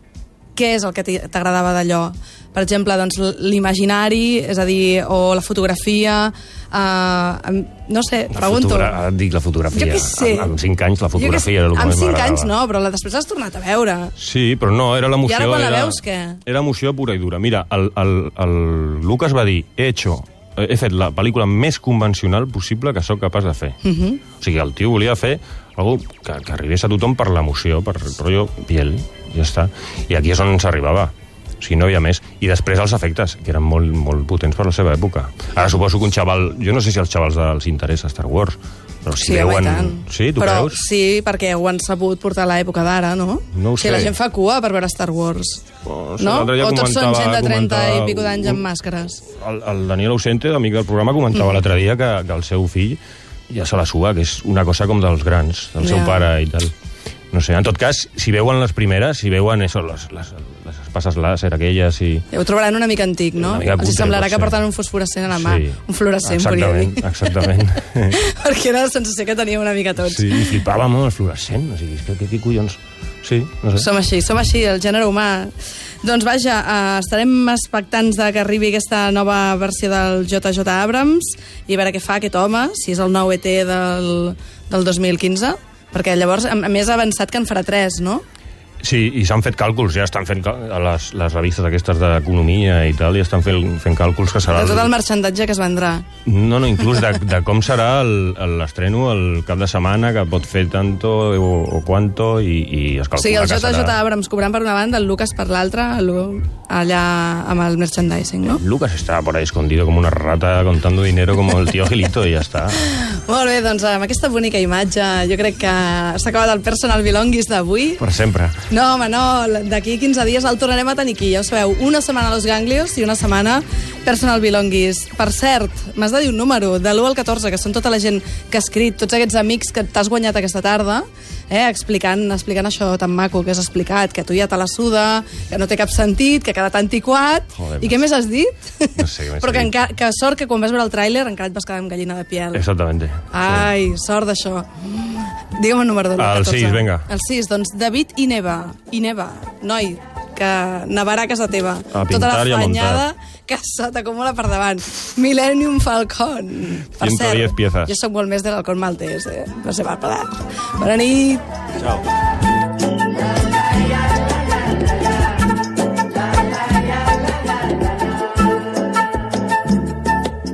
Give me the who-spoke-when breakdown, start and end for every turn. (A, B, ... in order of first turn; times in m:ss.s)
0:00.6-0:09.0 A
0:08.3-0:12.5 B
0:09.7-0:10.5 A
0:11.2-0:14.1 A
0:14.2-0:23.8 B
0:15.2-0:16.4 A
0:23.8-0:24.2 A
0:24.4-0:40.8 B
0:39.2-0:45.6 A
0:43.5-0:44.1 B
0:45.8-0:48.6 B
0:46.2-0:49.2 A
0:49.4-0:56.7 B
0:55.8-0:56.3 A
0:57.3-1:02.3 B
1:02.3-1:07.6 A
1:03.4-1:04.6 B
1:05.3-1:08.2 B
1:08.1-1:10.5 A
1:10.0-1:13.9 B
1:13.7-1:28.2 A
1:28.8-1:34.9 B
1:34.5-1:36.0 A
1:36.2-1:44.0 B
1:43.2-1:48.6 A
1:48.5-1:52.9 B
1:52.8-1:58.0 A
1:58.0-1:58.6 B
1:58.7-2:22.6 A
2:17.6-2:18.0 B
2:19.0-2:19.7 B
2:22.5-2:23.7 B
2:23.3-2:41.4 A
2:26.2-2:27.1 B
2:31.9-2:33.1 B
2:37.0-2:37.9 B